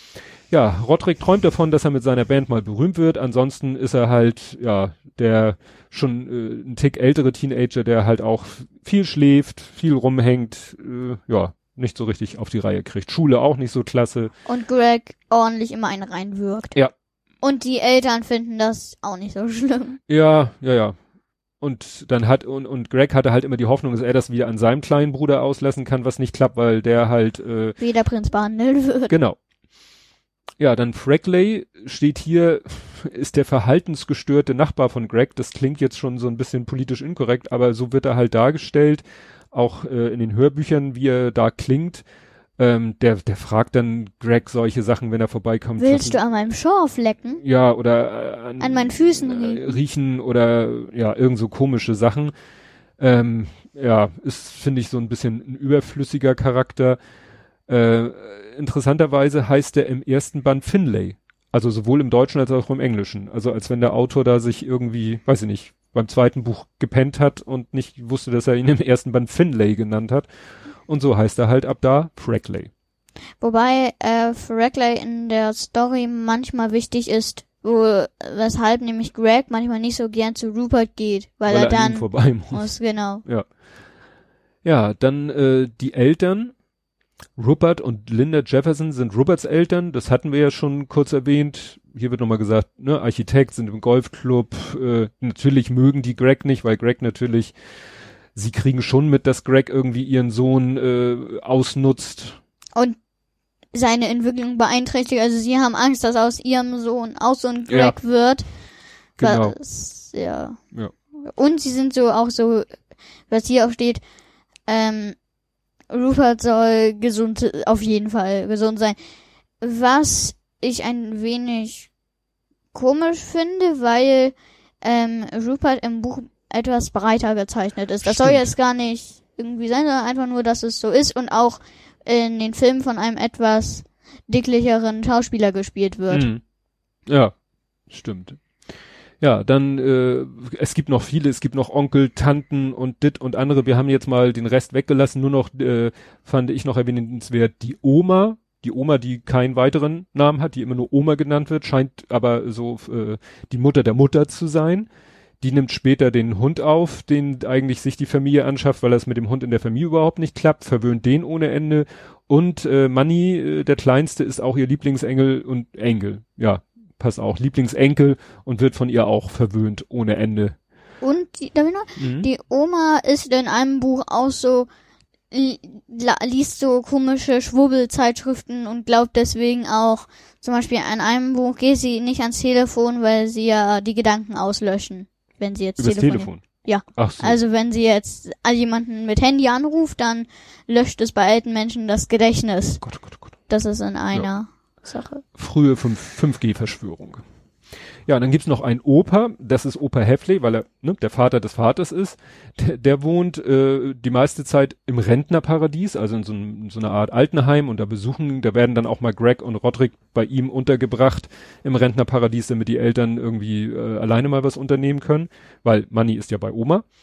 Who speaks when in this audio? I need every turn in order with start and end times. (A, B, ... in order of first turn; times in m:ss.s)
0:00.5-0:14.3 A
0:14.5-0:16.8 B
0:17.4-0:20.0 B
0:20.1-0:21.0 A
0:21.6-0:27.8 A
0:27.8-0:29.1 B
0:29.1-0:29.4 A
0:30.6-0:42.0 A
0:42.6-0:46.2 A
0:45.8-0:47.4 B
0:47.4-0:52.3 A
0:48.6-0:49.8 B
0:53.0-0:57.0 A
0:57.7-1:10.3 A
1:10.9-1:12.7 A
1:13.4-1:23.2 B
1:21.5-1:22.7 A
1:24.6-1:26.5 A
1:27.4-1:37.6 A
1:38.4-1:42.4 A
1:43.7-1:48.5 B
1:47.7-1:48.0 A
1:49.2-1:50.6 B
1:49.2-1:49.6 A
1:51.2-1:52.8 B
1:53.3-1:54.0 B
1:54.7-1:55.2 B
1:55.9-1:59.0 B
1:59.6-2:01.9 B
2:02.7-2:16.3 B
2:08.0-2:08.5 A
2:16.1-2:16.4 A
2:17.1-2:17.3 A
2:17.9-2:18.4 A
2:19.2-2:34.9 A
2:35.4-2:50.6 A
2:51.0-2:54.7 B
2:52.0-2:52.3 A
2:55.3-3:12.8 B
3:05.8-3:07.4 A
3:12.8-3:13.4 A
3:13.5-3:15.2 B
3:15.4-3:17.2 A
3:18.1-3:36.8 A